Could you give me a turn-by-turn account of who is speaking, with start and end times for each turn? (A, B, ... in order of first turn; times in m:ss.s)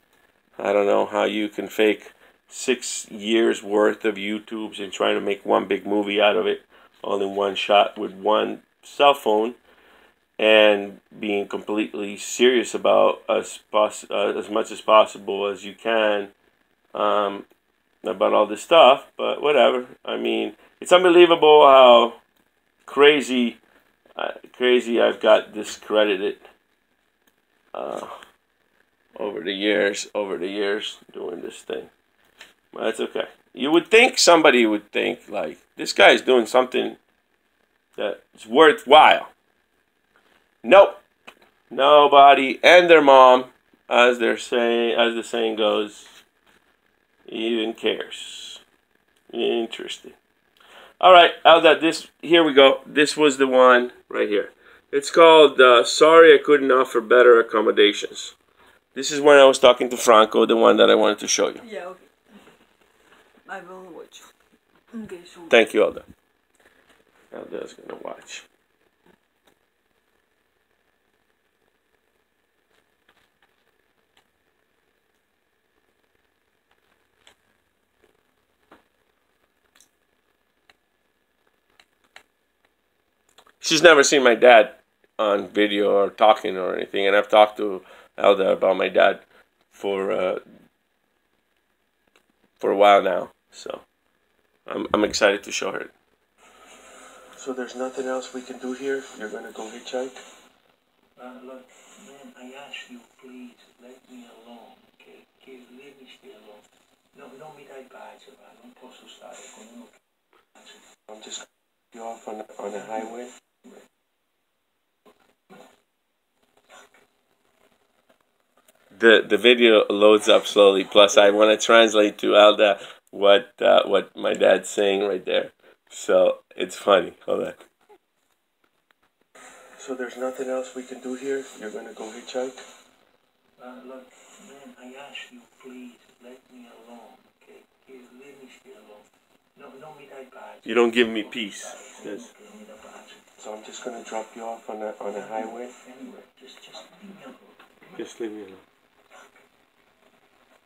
0:00.6-0:09.6 A
0:10.4-0:16.3 A
0:16.9-0:17.5 A
0:18.0-0:22.2 A
0:22.9-0:23.6 A
0:24.2-0:26.4 A
0:27.7-0:28.1 A
0:29.2-0:31.9 A
0:32.7-0:37.0 A
0:38.0-0:39.3 A
0:40.6-0:41.0 A
0:41.7-0:46.1 A
0:47.3-0:48.6 A
0:49.3-0:50.2 A
0:51.0-0:58.4 A
0:59.0-1:01.6 A
1:01.6-1:02.1 B
1:03.5-1:04.3 B
1:04.9-1:05.6 B
1:05.5-1:06.0 A
1:07.3-1:08.5 A
1:23.6-1:30.4 A
1:32.6-1:33.8 A
1:34.7-1:35.9 A
1:37.4-1:40.1 A
1:41.2-1:50.0 C
1:50.5-1:50.8 C
1:51.1-1:51.4 A
1:51.9-1:53.3 A
1:52.7-1:53.1 C
1:58.9-2:07.6 A
2:09.8-2:12.6 A
2:13.6-2:23.2 C
2:20.6-2:22.3 A
2:23.4-2:25.7 A
2:25.1-2:28.0 C
2:28.0-2:28.6 A
2:29.2-2:29.4 C